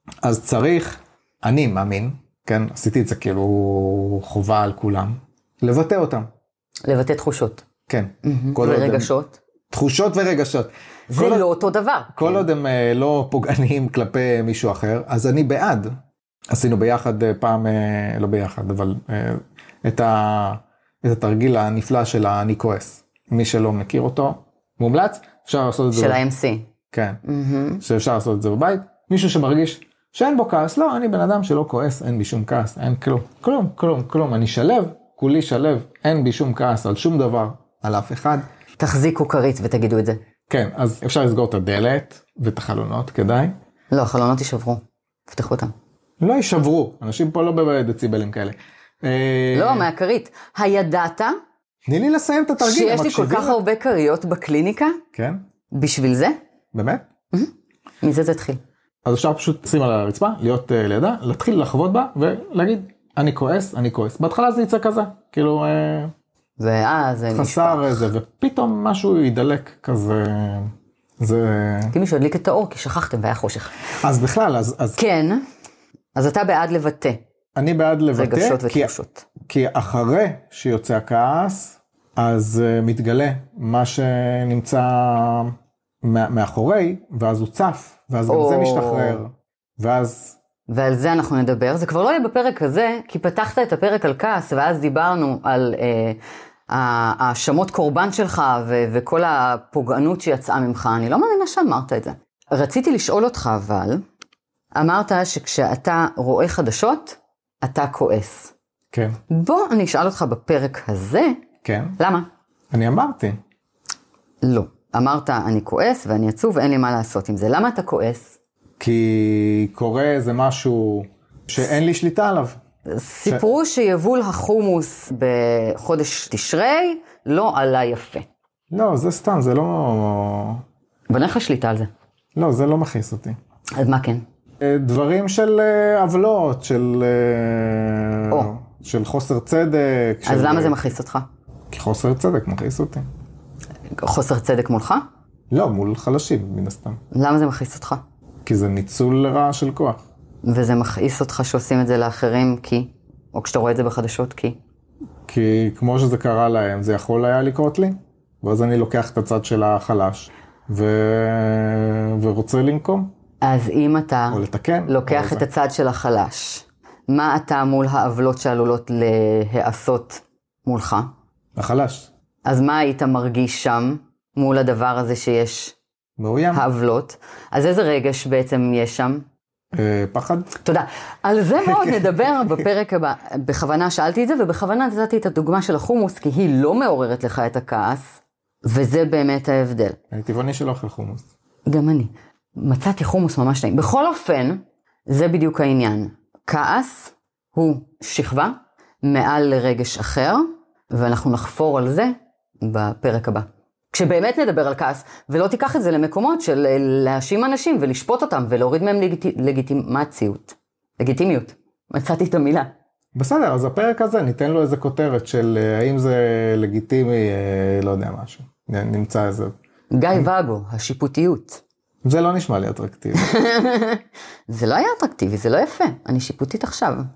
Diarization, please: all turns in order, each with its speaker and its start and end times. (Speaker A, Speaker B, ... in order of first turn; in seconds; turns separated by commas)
Speaker A: 0.2-6.3, Speaker B: 6.9-7.7, Speaker A: 7.9-9.1, Speaker B: 8.2-9.4, Speaker A: 9.7-11.5, Speaker B: 11.1-12.5, Speaker A: 12.1-15.9, Speaker A: 16.5-26.2, Speaker B: 25.9-26.7, Speaker A: 26.9-27.2, Speaker B: 27.2-27.8, Speaker A: 27.8-38.5, Speaker B: 38.8-40.2, Speaker A: 40.5-43.5, Speaker B: 43.9-45.7, Speaker A: 46.2-49.9, Speaker B: 49.5-51.4, Speaker A: 51.9-53.6, Speaker B: 52.6-55.0, Speaker A: 55.1-55.4, Speaker B: 55.7-56.4, Speaker A: 56.7-57.1, Speaker B: 58.0-58.6, Speaker A: 59.0-66.1, Speaker B: 66.6-68.0, Speaker A: 67.3-72.0, Speaker B: 71.9-73.8, Speaker A: 74.0-75.0, Speaker B: 75.0-75.4, Speaker B: 76.2-77.2, Speaker A: 77.6-78.9, Speaker B: 78.1-79.3, Speaker A: 79.5-90.4, Speaker B: 88.3-89.2, Speaker B: 90.7-104.0, Speaker B: 104.8-108.5, Speaker A: 108.9-109.2, Speaker B: 109.3-111.4, Speaker A: 111.6-112.0, Speaker B: 112.0-112.3, Speaker A: 112.7-113.4, Speaker B: 114.4-118.3, Speaker A: 118.8-122.6, Speaker B: 122.9-128.3, Speaker A: 128.7-130.6, Speaker B: 131.1-131.9, Speaker A: 132.4-133.4, Speaker B: 133.8-134.2, Speaker A: 134.6-140.8, Speaker B: 140.3-141.3, Speaker A: 141.7-143.1, Speaker B: 144.0-145.1, Speaker A: 145.5-147.0, Speaker B: 147.1-148.0, Speaker A: 148.4-150.0, Speaker B: 150.4-154.6, Speaker A: 155.3-163.1, Speaker B: 163.4-171.1, Speaker A: 164.3-165.4, Speaker A: 171.6-172.1, Speaker B: 172.5-175.8, Speaker A: 176.2-176.6, Speaker B: 176.5-179.2, Speaker A: 179.7-180.5, Speaker B: 180.6-188.0, Speaker B: 188.6-190.0, Speaker A: 190.1-191.2, Speaker B: 191.7-212.7, Speaker A: 213.2-219.5, Speaker B: 219.9-221.6, Speaker A: 222.0-223.3, Speaker B: 223.2-227.1